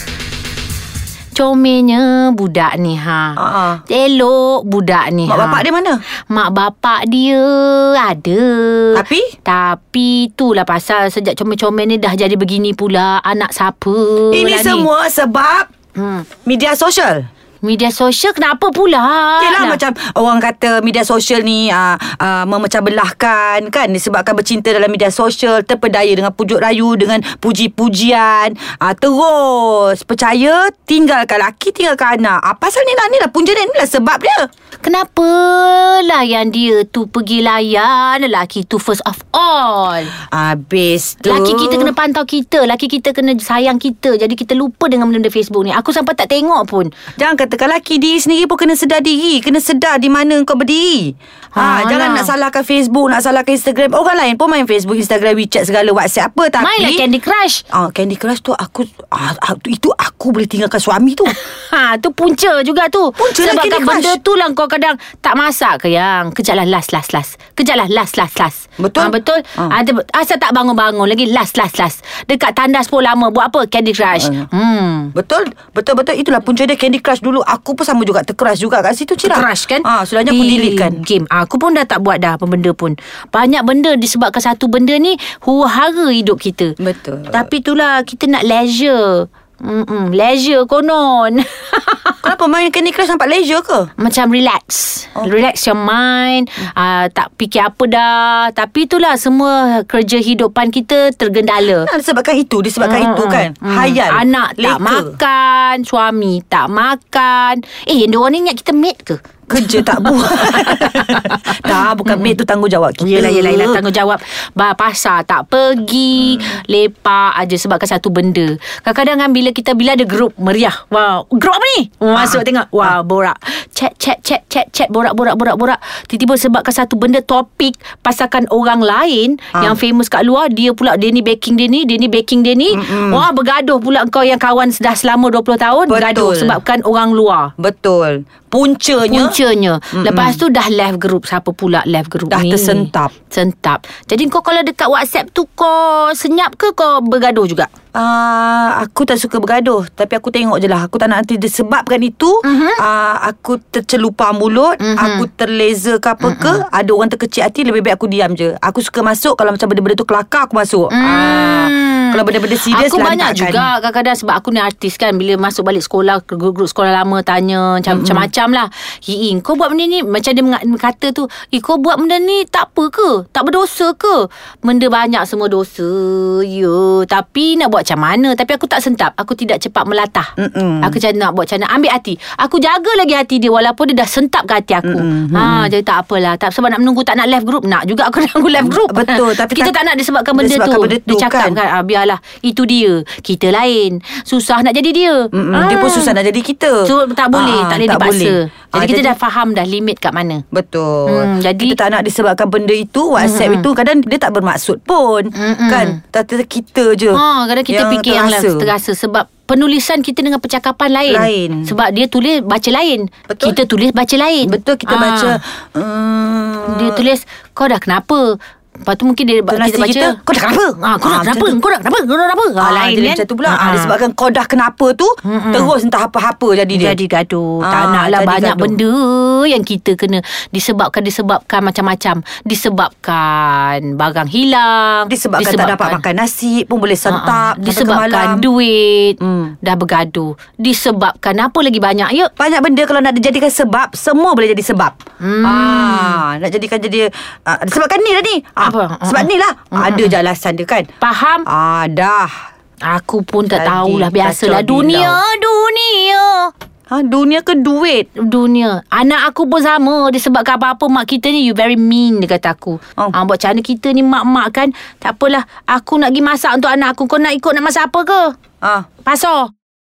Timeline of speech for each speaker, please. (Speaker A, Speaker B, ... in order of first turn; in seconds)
Speaker A: 1.3-5.6, 6.3-14.9, 15.9-16.3, 17.6-19.8, 34.8-40.1, 41.2-46.9, 51.5-52.3, 56.6-57.6, 61.3-75.1, 79.2-86.8, 87.3-92.2, 94.0-101.9, 102.8-112.3, 113.0-137.5, 139.0-147.7, 152.4-152.8, 154.8-155.3, 156.2-156.6, 160.9-180.3, 180.8-196.2, 196.8-200.4, 201.1-201.8, 203.2-203.7, 205.3-206.0, 207.1-215.4, 216.7-220.2, 220.8-223.9, 225.2-225.7, 226.7-236.0, 237.1-242.3, 245.2-246.2, 248.6-250.2, 251.0-251.4, 252.9-256.5, 258.1-268.3, 269.0-269.5
Speaker B: 3.4-3.8, 5.3-6.0, 8.9-9.3, 14.3-15.7, 16.4-17.3, 19.4-34.5, 40.3-41.9, 47.2-57.0, 57.7-61.3, 63.2-64.2, 68.8-69.7, 74.1-74.5, 75.1-81.0, 86.8-87.5, 92.2-93.9, 101.7-105.1, 109.5-113.8, 122.1-123.0, 132.7-133.3, 135.9-136.6, 137.6-139.4, 139.9-140.4, 142.3-143.1, 147.9-163.7, 167.9-168.3, 180.4-181.0, 184.8-185.7, 188.6-189.8, 190.3-191.6, 195.3-199.2, 200.5-208.7, 211.1-211.7, 213.3-213.6, 214.4-217.1, 219.5-221.6, 222.6-226.9, 227.6-228.8, 235.1-238.5, 239.2-239.5, 242.4-250.9, 251.4-252.3, 253.5-255.2, 256.9-258.1